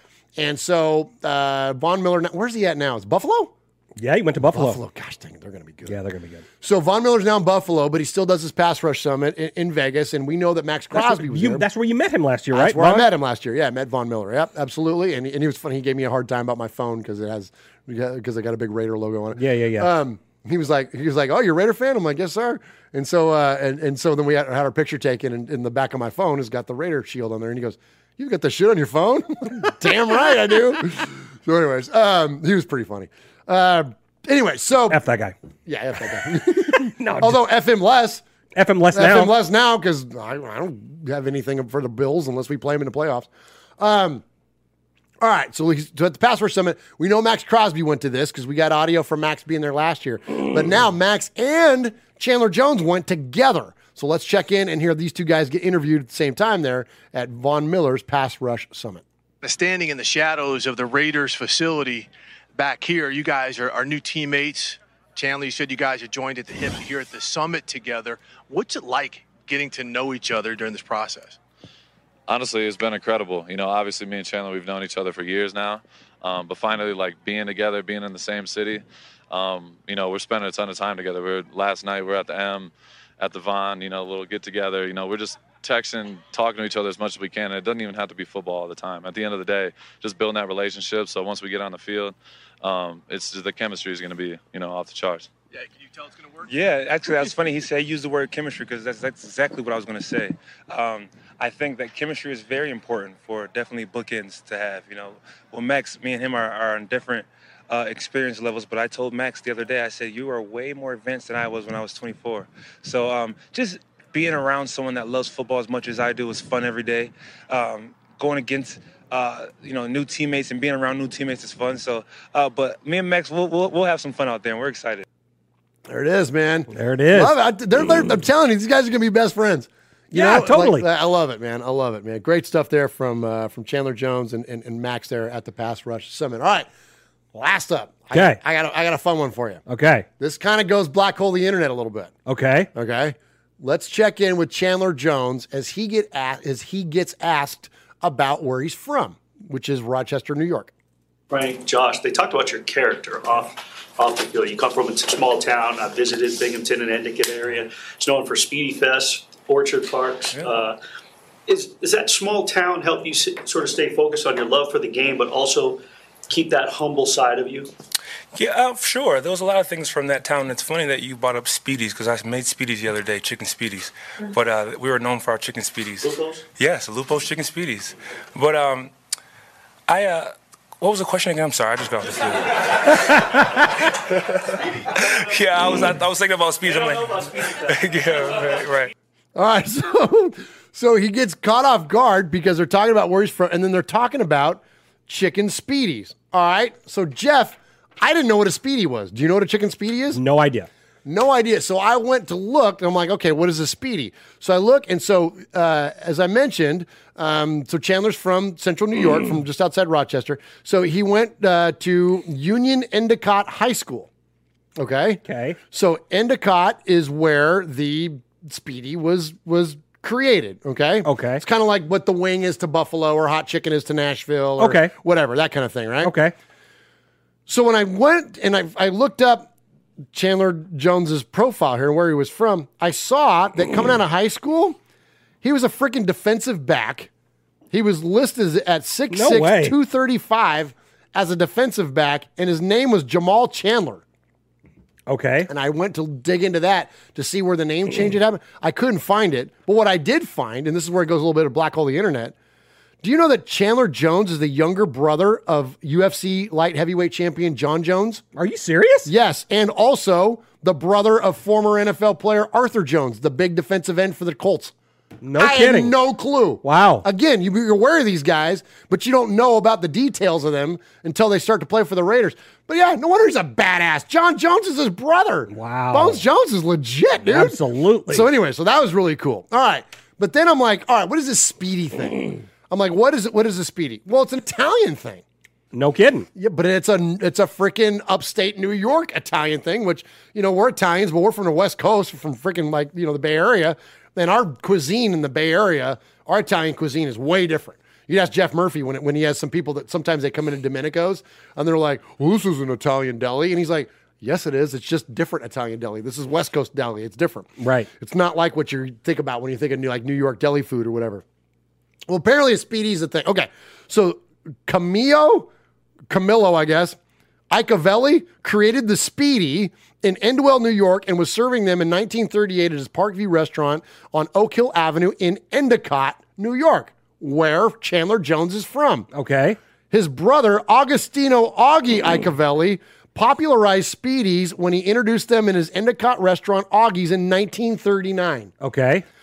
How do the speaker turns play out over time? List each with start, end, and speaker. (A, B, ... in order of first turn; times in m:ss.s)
0:00.4-0:03.5 A
0:04.0-0:04.8 B
0:04.5-0:06.0 A
0:05.9-0:06.4 B
0:06.6-0:11.7 A
0:10.9-0:13.1 B
0:12.5-0:35.0 A
0:19.4-0:19.9 B
0:34.9-0:35.4 B
0:35.7-0:38.2 A
0:36.8-0:37.4 B
0:38.6-0:39.3 B
0:38.9-0:44.2 A
0:45.2-0:59.0 A
0:59.4-1:11.4 C
1:12.3-1:35.3 D
1:36.5-2:05.0 E
2:05.9-2:16.7 A
2:06.7-2:07.3 B
2:10.1-2:10.9 B
2:17.3-2:19.6 A
2:18.1-2:18.4 B
2:19.7-2:20.1 B
2:20.2-2:22.1 A
2:22.3-2:22.7 B
2:22.7-2:30.7 A
2:31.3-2:40.8 F
2:41.5-2:47.7 F
2:48.3-2:58.9 E
2:56.0-2:56.4 F
2:59.9-3:03.7 E
3:04.9-3:08.9 E
3:09.4-3:20.2 A
3:20.1-3:20.7 B
3:21.1-3:34.1 A
3:34.8-3:35.2 A
3:35.2-3:35.6 B
3:35.7-3:46.2 A
3:41.0-3:41.4 B
3:44.6-3:44.9 B
3:46.0-3:46.3 B
3:47.5-3:49.5 A
3:50.1-3:54.8 A
3:55.4-3:57.1 A
3:57.7-4:04.0 A
3:59.1-3:59.8 B
4:05.1-4:05.5 B
4:05.5-4:12.3 A
4:13.0-4:18.2 A
4:18.4-4:19.1 B
4:19.0-4:24.7 A
4:25.2-4:25.9 B
4:25.4-4:45.2 A
4:26.6-4:27.0 B
4:35.5-4:36.2 B
4:37.3-4:38.3 B
4:45.7-4:46.3 B
4:46.4-5:11.2 A
5:07.6-5:07.9 B
5:12.1-5:15.5 A
5:16.1-5:17.0 A
5:17.5-5:29.1 A
5:29.1-5:29.6 B
5:29.9-5:38.5 A
5:38.6-5:39.0 B